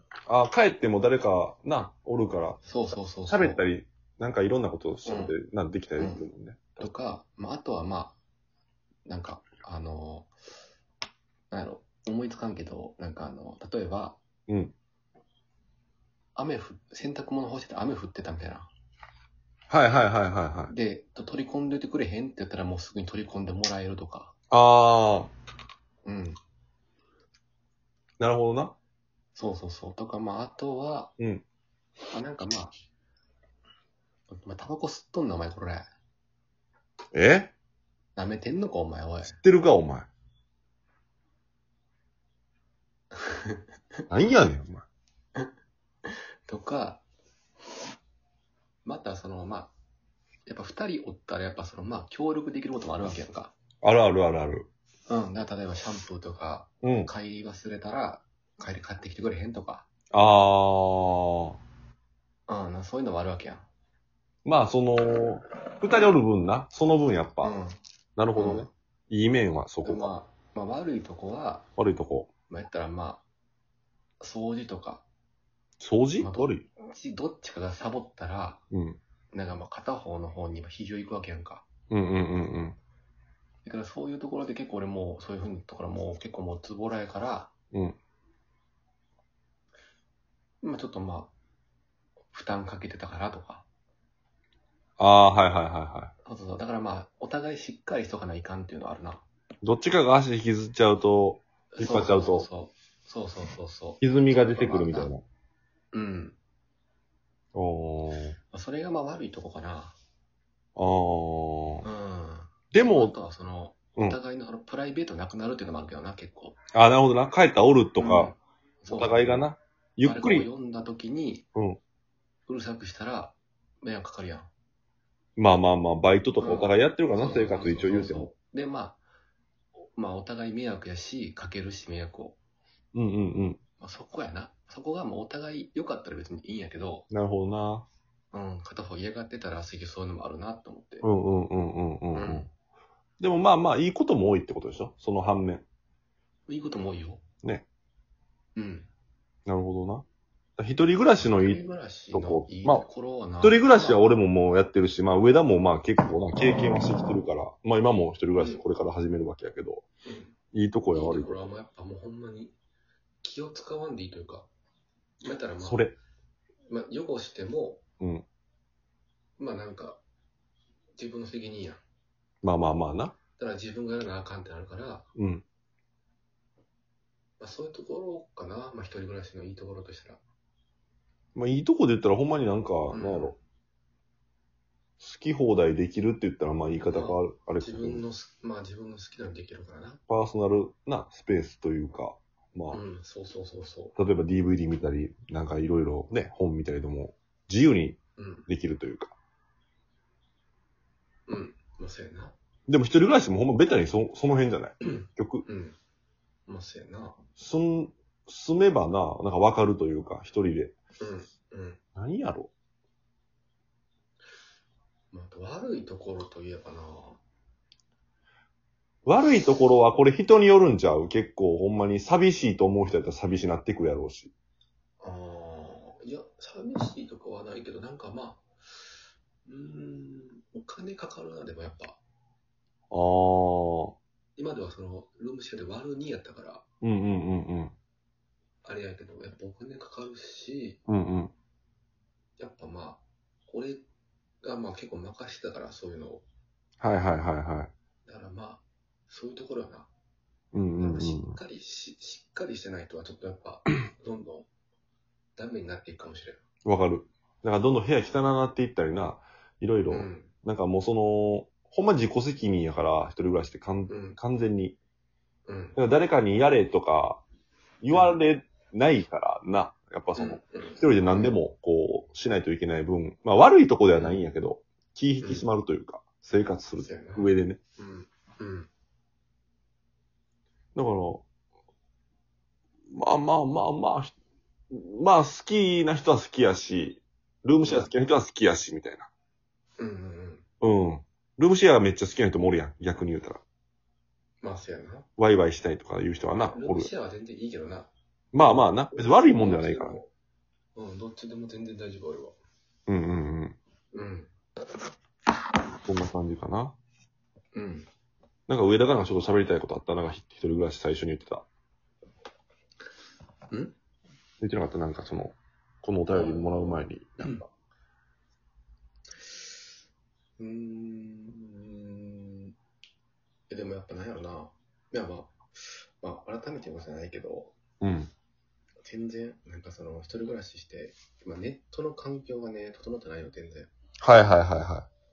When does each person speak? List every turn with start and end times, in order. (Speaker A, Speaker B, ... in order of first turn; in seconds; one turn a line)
Speaker A: 0.3-2.6
Speaker B: 2.6-3.6
Speaker A: 3.3-6.6
Speaker B: 5.0-5.3
Speaker B: 6.0-6.2
Speaker B: 6.8-8.2
Speaker B: 9.1-10.3
Speaker B: 11.5-14.2
Speaker A: 14.5-14.7
Speaker B: 16.4-18.7
Speaker A: 19.7-20.7
Speaker B: 20.7-24.3
Speaker A: 24.5-25.3
Speaker B: 26.1-26.4
Speaker A: 28.2-28.7
Speaker B: 29.4-31.1
Speaker A: 31.2-31.4
Speaker B: 32.1-32.7
Speaker B: 34.3-35.9
Speaker A: 37.1-37.5
Speaker B: 38.2-39.4
Speaker A: 39.2-40.1
Speaker B: 43.2-43.6
Speaker A: 44.1-44.9
Speaker B: 46.5-47.0
Speaker B: 48.9-49.7
Speaker B: 50.5-53.5
Speaker A: 53.8-54.7
Speaker B: 55.1-59.9
Speaker A: 56.8-57.1
Speaker A: 60.1-61.6
Speaker B: 62.5-63.7
Speaker A: 64.5-67.5
Speaker B: 67.4-67.8
Speaker A: 68.2-70.1
Speaker B: 68.3-68.7
Speaker B: 69.8-71.7
Speaker A: 71.8-72.3
Speaker B: 72.5-73.2
Speaker B: 74.2-75.0
Speaker A: 75.8-76.7
Speaker B: 76.2-78.6
Speaker A: 78.7-79.0
Speaker B: 79.3-81.7
Speaker A: 81.9-82.8
Speaker B: 83.6-87.5
Speaker B: 90.6-91.3
Speaker B: 92.3-93.7
Speaker A: 95.0-96.1
Speaker B: 96.2-99.2
Speaker A: 99.6-102.5
Speaker B: 101.7-105.1
Speaker A: 104.0-105.2
Speaker B: 105.9-106.4
Speaker A: 107.5-108.4
Speaker B: 108.5-110.0
Speaker A: 110.8-111.9
Speaker B: 111.8-116.6
Speaker A: 112.7-113.1
Speaker A: 116.7-118.3
Speaker B: 118.0-119.5
Speaker A: 118.9-120.5
Speaker B: 120.0-121.5
Speaker A: 121.5-121.8
Speaker B: 122.5-124.5
Speaker A: 125.4-128.3
Speaker B: 126.4-129.0
Speaker B: 129.9-132.4
Speaker A: 132.9-133.6
Speaker B: 133.8-137.1
Speaker A: 137.1-137.9
Speaker B: 138.3-141.1
Speaker A: 141.0-142.5
Speaker B: 142.1-142.5
Speaker A: 143.2-145.7
Speaker B: 146.5-147.2
Speaker B: 148.6-148.9
Speaker A: 149.5-150.1
Speaker A: 150.6-152.9
Speaker B: 151.2-154.0
Speaker A: 153.4-159.8
Speaker B: 158.4-158.6
Speaker B: 160.1-160.4
Speaker A: 160.5-161.4
Speaker B: 160.9-162.6
Speaker B: 163.2-164.5
Speaker B: 165.2-165.8
Speaker A: 165.6-165.9
Speaker B: 166.7-167.8
Speaker A: 168.0-168.2
Speaker B: 169.4-170.0
Speaker B: 171.0-171.8
Speaker A: 172.4-173.2
Speaker B: 173.4-175.1
Speaker A: 175.2-175.4
Speaker B: 177.4-180.2
Speaker A: 181.3-183.4
Speaker B: 182.9-183.3
Speaker A: 185.0-188.0
Speaker B: 186.9-190.0
Speaker A: 190.1-192.8
Speaker B: 192.7-193.9
Speaker A: 194.0-199.1
Speaker B: 198.2-198.5
Speaker B: 201.3-202.3
Speaker A: 202.7-205.4
Speaker B: 204.8-205.8
Speaker B: 206.5-207.2
Speaker A: 207.4-210.8
Speaker B: 211.0-211.8
Speaker A: 212.0-212.5
Speaker B: 215.1-217.2
Speaker A: 219.1-224.3
Speaker B: 225.0-228.5
Speaker B: 229.4-232.0
Speaker A: 232.9-233.9
Speaker B: 234.4-236.6
Speaker A: 236.8-237.7
Speaker B: 238.6-240.8
Speaker A: 240.9-241.3
Speaker B: 242.4-243.8
Speaker B: 244.4-246.2
Speaker A: 246.8-247.7
Speaker B: 248.1-249.9
Speaker A: 250.5-251.4
Speaker B: 250.8-254.5
Speaker B: 255.4-256.4
Speaker A: 256.6-264.8
Speaker B: 259.9-260.3
Speaker B: 263.9-264.2
Speaker B: 265.5-265.8
Speaker A: 265.8-267.2
Speaker A: 267.8-277.6
Speaker B: 267.9-268.2
Speaker B: 270.2-271.4
Speaker B: 273.9-274.2
Speaker B: 276.8-278.7
Speaker A: 280.8-281.2
Speaker A: 282.9-284.1
Speaker A: 284.7-289.1
Speaker B: 287.6-287.9
Speaker B: 289.8-290.4
Speaker A: 290.6-293.4
Speaker B: 294.4-295.1
Speaker A: 295.2-296.9
Speaker B: 296.5-297.9
Speaker A: 298.3-300.0
Speaker B: 298.9-300.1
Speaker B: 300.8-302.4
Speaker A: 302.9-303.6
Speaker B: 303.9-304.3
Speaker A: 305.9-306.8
Speaker B: 307.5-307.9
Speaker A: 308.5-311.5
Speaker B: 313.5-313.8
Speaker A: 314.4-317.4
Speaker B: 316.1-317.4
Speaker B: 320.4-322.5
Speaker B: 323.5-327.6
Speaker A: 327.8-328.1
Speaker B: 328.9-333.7
Speaker A: 334.0-334.9